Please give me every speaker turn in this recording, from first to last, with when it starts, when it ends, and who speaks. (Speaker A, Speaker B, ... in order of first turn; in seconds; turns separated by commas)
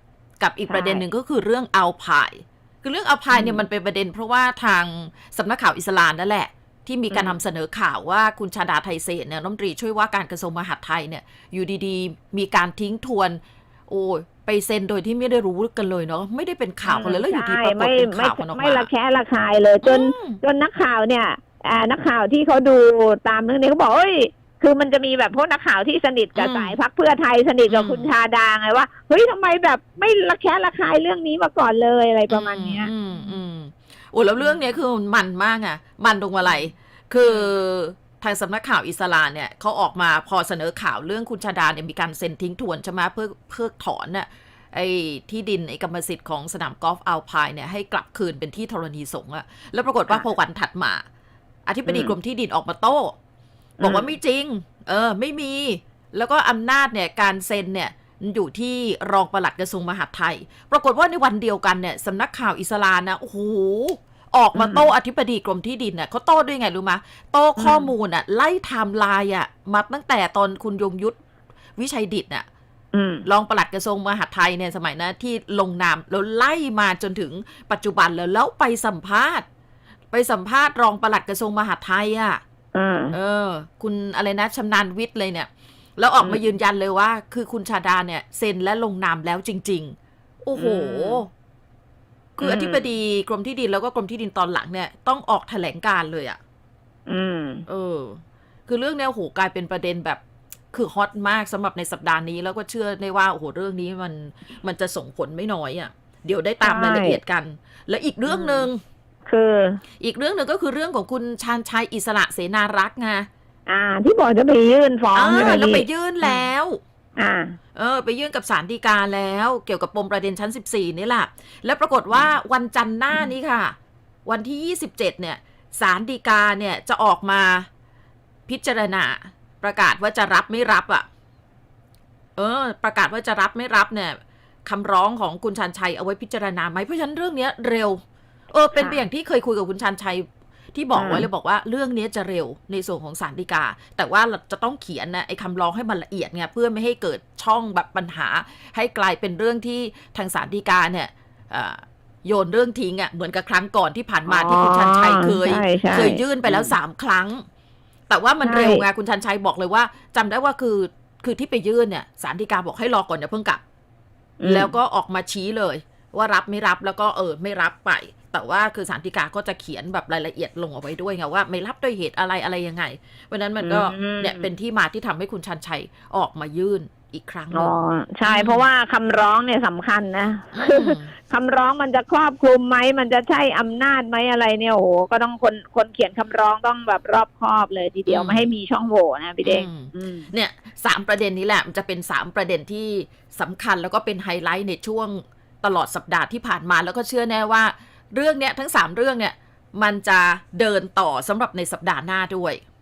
Speaker A: 0.4-18.9, Speaker B: 0.7-1.0, Speaker B: 3.3-3.6, Speaker B: 7.1-7.4, Speaker B: 16.9-33.4, Speaker A: 19.8-20.4, Speaker A: 26.4-26.8, Speaker A: 27.7-28.1, Speaker A: 32.3-51.0, Speaker B: 34.4-34.6, Speaker B: 37.2-37.5, Speaker A: 51.6-53.1, Speaker B: 51.9-52.1, Speaker B: 53.8-54.1, Speaker A: 53.8-71.2, Speaker B: 64.5-64.9, Speaker B: 67.6-67.9, Speaker A: 71.8-72.5, Speaker B: 72.9-73.2, Speaker A: 73.2-79.5, Speaker A: 80.1-82.4, Speaker B: 82.7-83.1, Speaker A: 83.1-91.3, Speaker B: 90.6-91.2, Speaker A: 92.4-96.4, Speaker B: 92.4-92.8, Speaker B: 97.1-97.6, Speaker A: 97.7-100.2, Speaker A: 100.7-108.8, Speaker B: 106.6-107.2, Speaker B: 108.3-108.7, Speaker B: 109.3-109.8, Speaker A: 110.0-113.3, Speaker B: 113.7-116.4, Speaker A: 115.1-116.8, Speaker B: 117.2-117.6, Speaker A: 117.8-123.7, Speaker A: 124.2-127.7, Speaker A: 128.5-131.1, Speaker A: 132.4-157.4, Speaker B: 138.7-139.0, Speaker B: 140.9-141.3, Speaker B: 154.3-156.8, Speaker A: 158.1-163.6, Speaker B: 158.4-158.8, Speaker B: 164.4-164.7, Speaker A: 164.4-177.7, Speaker B: 173.6-174.5, Speaker B: 177.5-190.3, Speaker A: 178.2-178.6, Speaker A: 180.5-181.1, Speaker A: 188.1-188.5, Speaker A: 189.4-202.6